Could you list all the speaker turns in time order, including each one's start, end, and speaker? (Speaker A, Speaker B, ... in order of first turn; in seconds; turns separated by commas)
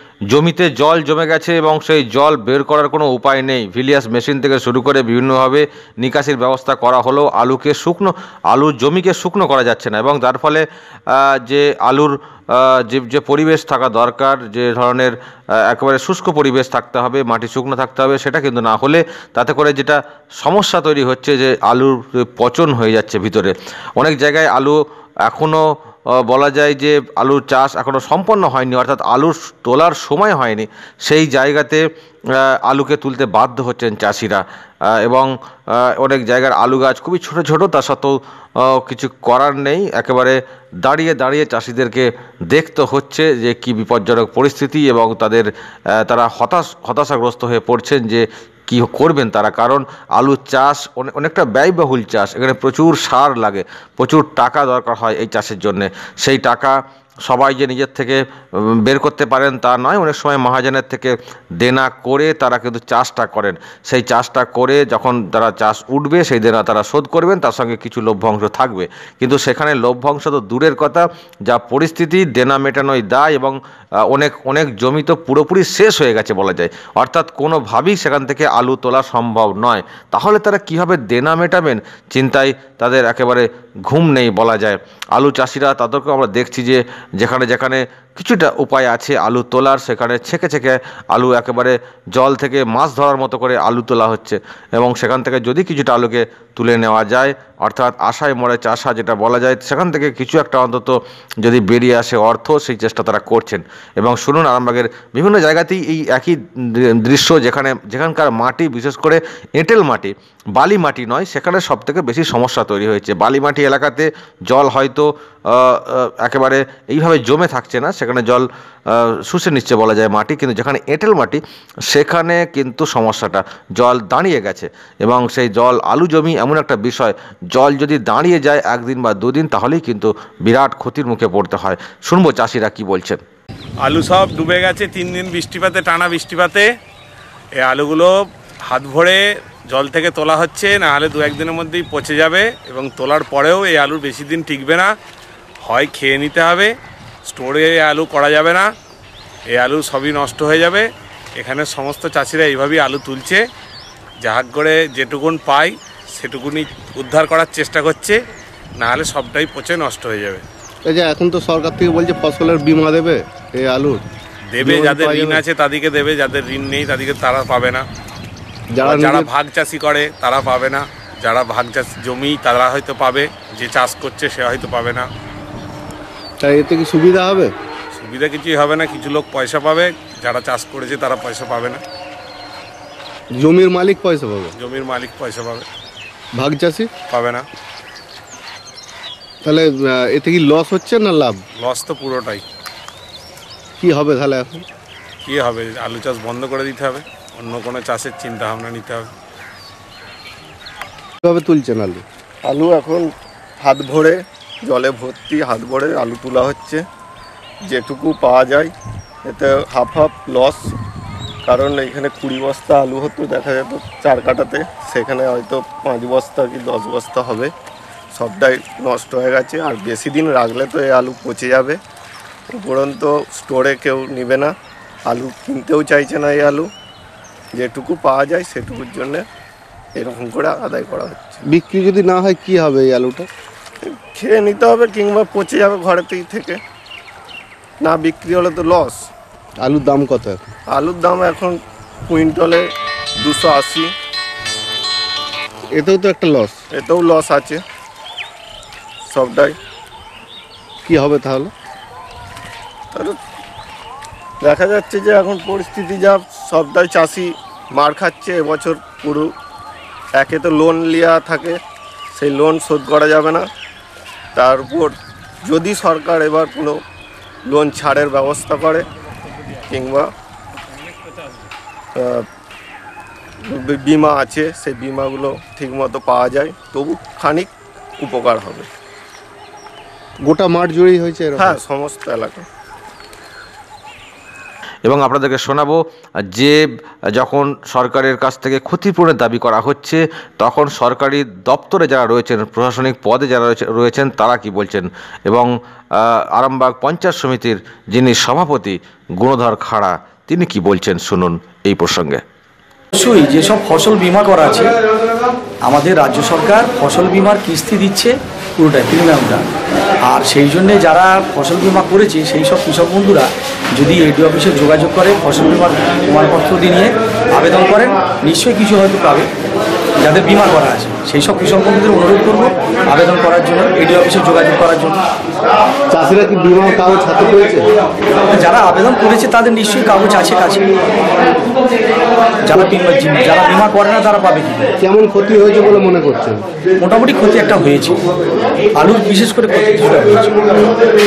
Speaker A: 0.3-25.6, Speaker A: 26.2-31.8, Speaker A: 32.4-34.4, Speaker A: 35.0-133.2, Speaker B: 133.8-136.7, Speaker B: 137.6-144.9, Speaker B: 145.6-146.7, Speaker B: 147.2-148.7, Speaker B: 149.5-153.4, Speaker B: 154.2-158.2, Speaker B: 158.8-160.4, Speaker C: 160.8-164.0, Speaker B: 164.5-167.8, Speaker C: 164.6-165.4, Speaker C: 168.7-169.3, Speaker B: 168.8-175.1, Speaker C: 176.4-177.5, Speaker B: 177.9-181.8, Speaker C: 183.3-184.5, Speaker B: 184.6-185.7, Speaker C: 186.3-186.9, Speaker B: 187.1-187.4, Speaker C: 189.4-191.4, Speaker B: 191.6-192.4, Speaker C: 193.8-194.6, Speaker B: 195.2-199.1, Speaker C: 201.2-202.0, Speaker D: 202.4-203.1, Speaker D: 203.6-206.8, Speaker D: 207.7-208.7, Speaker D: 209.2-210.7, Speaker D: 211.4-217.5, Speaker D: 218.1-221.8, Speaker D: 222.5-224.5, Speaker D: 225.1-226.7, Speaker D: 227.5-229.2, Speaker D: 229.9-231.4, Speaker C: 231.4-233.3, Speaker D: 233.8-236.6, Speaker D: 237.8-239.1, Speaker C: 239.6-240.5, Speaker D: 240.7-242.6, Speaker D: 243.2-243.9, Speaker C: 245.7-246.6, Speaker D: 246.7-247.6, Speaker D: 249.0-249.6, Speaker C: 250.8-251.5, Speaker D: 252.9-253.2, Speaker D: 254.4-259.3, Speaker D: 260.1-261.6, Speaker D: 262.1-263.4, Speaker D: 264.3-266.8, Speaker D: 267.4-268.9, Speaker D: 269.7-270.1, Speaker B: 270.6-271.5, Speaker D: 271.9-272.2, Speaker D: 273.4-278.7, Speaker C: 280.2-281.6, Speaker D: 281.4-282.4, Speaker A: 284.9-285.8, Speaker A: 286.3-286.6, Speaker A: 287.1-302.2, Speaker E: 302.9-304.8, Speaker E: 305.6-309.4, Speaker E: 310.1-319.3, Speaker E: 320.0-325.0, Speaker C: 325.9-327.7, Speaker E: 328.2-330.6, Speaker E: 332.4-334.7, Speaker C: 334.8-336.4, Speaker E: 336.8-338.0, Speaker E: 338.7-340.6